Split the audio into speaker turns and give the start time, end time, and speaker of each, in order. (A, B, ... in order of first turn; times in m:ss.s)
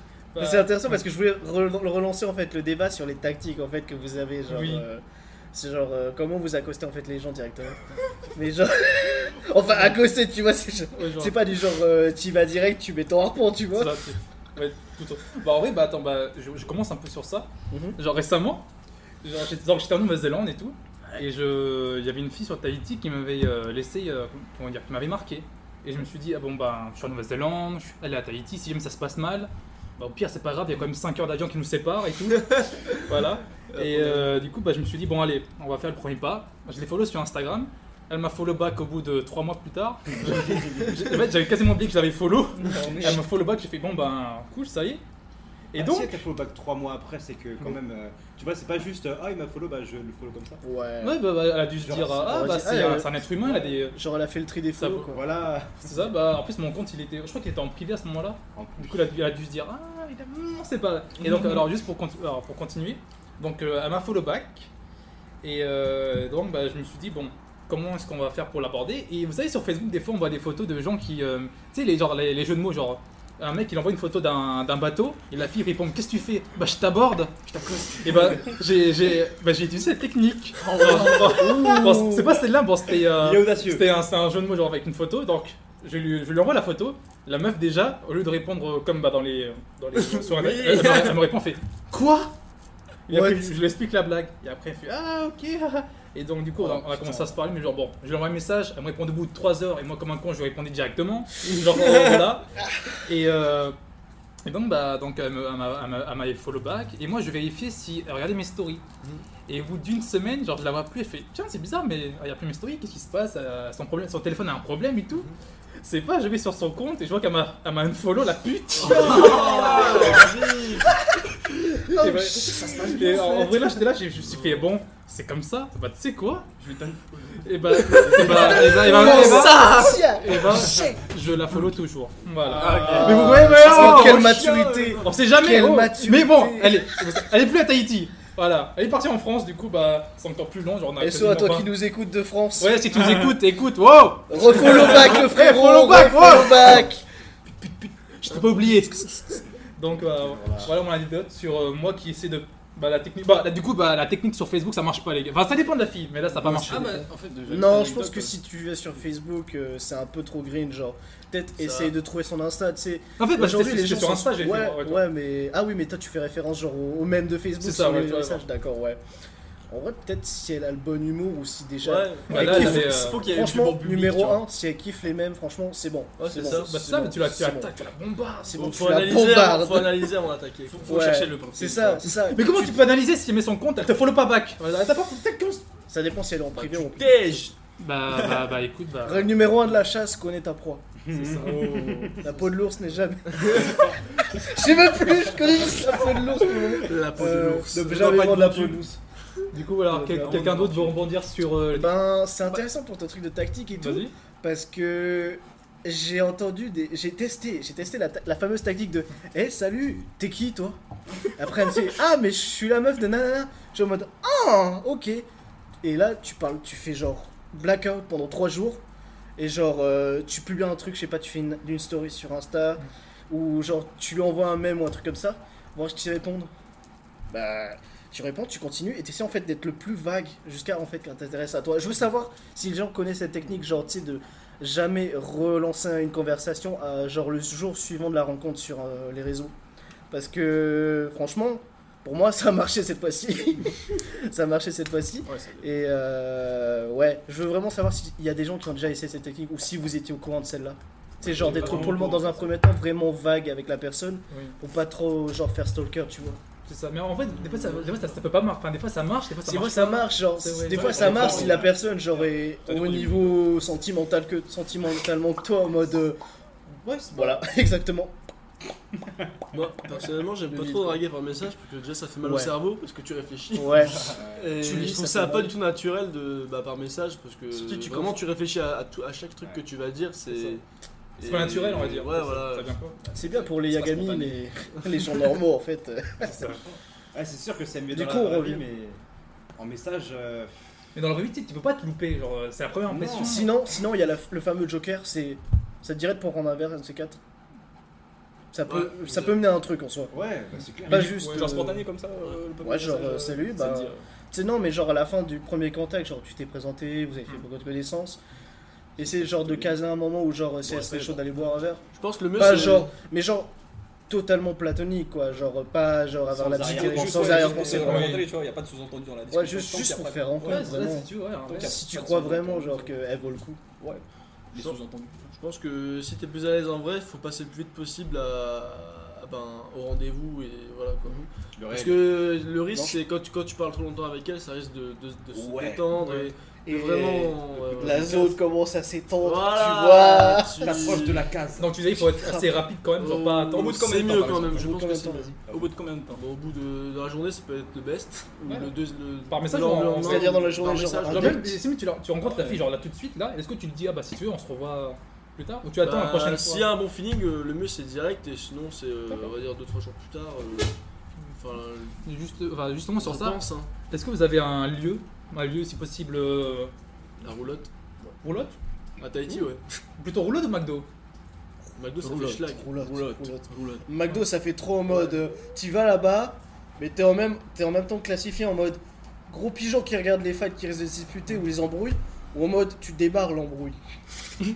0:00.3-0:01.0 A
0:00.4-0:14.0 B
0:04.5-0:04.8 A
0:10.9-0:11.4 A
0:13.7-0:18.6 A
0:17.7-0:18.0 B
0:19.2-0:45.0 A
0:40.2-0:41.0 C
0:42.7-0:43.1 C
0:45.7-0:46.2 A
0:45.7-0:50.6 C
0:50.6-0:51.3 B
0:51.0-0:54.0 A
0:51.8-0:52.3 C
0:52.0-0:55.2 B
0:54.8-0:55.2 A
0:55.1-0:56.0 C
0:55.8-1:04.7 A
0:58.5-0:59.1 C
1:05.4-1:17.5 A
1:17.5-1:18.3 C
1:18.0-1:32.3 A
1:20.8-1:22.0 C
1:20.8-1:22.4 B
1:20.9-1:21.3 D
1:23.1-1:23.9 C
1:29.9-1:31.3 E
1:33.1-1:42.5 A
1:33.1-1:33.5 B
1:43.0-1:43.8 A
1:44.4-1:48.8 A
1:49.5-1:55.3 A
1:55.8-1:59.4 A
1:58.8-2:00.9 E
1:59.0-2:00.2 D
1:59.3-2:00.2 B
2:01.6-2:03.8 B
2:01.9-2:06.5 A
2:02.5-2:03.5 D
2:06.6-2:08.9 D
2:07.4-2:14.3 A
2:07.9-2:10.1 E
2:08.1-2:11.0 B
2:12.5-2:15.1 D
2:12.6-2:16.8 B
2:15.0-2:21.7 A
2:21.0-2:22.9 B
2:22.6-2:26.9 A
2:24.3-2:27.0 B
2:27.6-2:29.2 A
2:28.3-2:28.7 B
2:29.8-2:37.1 A
2:30.2-2:30.7 C
2:36.4-2:38.4 D
2:37.4-2:49.0 B
2:41.6-2:41.9 E
2:43.2-2:45.0 A
2:47.6-2:48.4 A
2:49.7-2:57.7 B
2:51.8-2:52.4 E
2:52.3-2:53.3 A
2:52.3-2:54.5 D
2:56.2-2:56.7 E
2:56.3-2:58.7 A
2:58.4-3:00.1 B
2:58.6-3:00.9 E
3:00.7-3:02.2 D
3:00.8-3:02.8 B
3:02.3-3:05.6 A
3:05.9-3:07.5 B
3:06.6-3:07.5 E
3:07.8-3:09.3 A
3:09.0-3:19.0 B
3:11.1-3:11.6 A
3:11.3-3:12.2 D
3:16.8-3:18.3 E
3:17.8-3:18.9 D
3:19.5-3:21.9 A
3:19.9-3:20.6 B
3:20.0-3:21.1 D
3:21.7-3:30.8 B
3:23.7-3:24.1 A
3:31.3-3:35.3 B
3:35.8-3:38.8 B
3:39.4-3:46.5 B
3:47.3-3:59.5 B
4:00.1-4:16.4 B
4:05.2-4:05.7 D
4:11.2-4:12.3 C
4:11.4-4:12.4 D
4:11.5-4:11.9 A
4:14.3-4:14.6 A
4:16.6-4:21.4 A
4:19.4-4:26.2 B
4:20.7-4:23.4 D
4:20.9-4:21.7 C
4:27.1-4:28.2 B
4:29.5-4:40.6 E
4:30.4-4:31.0 B
4:32.2-4:32.5 B
4:33.5-4:35.5 B
4:34.1-4:34.6 C
4:37.7-4:38.1 D
4:41.2-4:42.8 E
4:41.2-4:42.9 A
4:43.1-4:44.4 D
4:43.1-4:46.3 B
4:46.2-4:46.6 A
4:47.1-4:49.0 C
4:47.9-4:48.6 B
4:49.6-4:50.5 C
4:50.9-4:53.5 A
4:52.9-4:53.3 C
4:53.0-4:57.2 B
4:58.5-5:00.2 B
4:58.6-4:59.3 E
5:00.1-5:01.2 C
5:00.9-5:01.9 B
5:00.9-5:04.0 D
5:00.9-5:01.5 A
5:02.5-5:08.2 B
5:09.0-5:11.8 B
5:09.0-5:09.7 D
5:10.6-5:11.2 D
5:12.0-5:12.9 E
5:12.3-5:13.5 B
5:14.1-5:18.1 B
5:16.3-5:23.0 D
5:16.5-5:17.7 C
5:17.6-5:18.3 A
5:19.3-5:23.6 B
5:20.4-5:21.8 A
5:23.8-5:25.3 D
5:25.3-5:38.4 E
5:31.6-5:32.1 C
5:32.7-5:33.0 B
5:35.3-5:35.9 C
5:35.9-5:36.3 A
5:36.6-5:40.9 B
5:39.2-5:41.3 E
5:40.6-5:41.7 C
5:41.6-5:43.8 A
5:42.0-5:42.6 B
5:43.0-5:45.3 E
5:43.5-5:44.7 D
5:44.4-5:45.4 B
5:45.5-5:46.2 D
5:46.1-5:51.5 E
5:48.4-5:48.7 A
5:49.3-5:50.4 A
5:50.0-5:51.6 B
5:51.0-5:56.7 A
5:52.3-5:52.6 D
5:55.8-6:00.7 E
6:01.4-6:02.0 E
6:02.0-6:06.7 A
6:03.0-6:03.7 E
6:07.2-6:07.7 E
6:08.2-6:08.5 A
6:09.0-6:09.8 E
6:10.0-6:10.9 A
6:11.8-6:12.8 E
6:12.0-6:23.8 B
6:12.8-6:13.8 D
6:14.9-6:15.2 E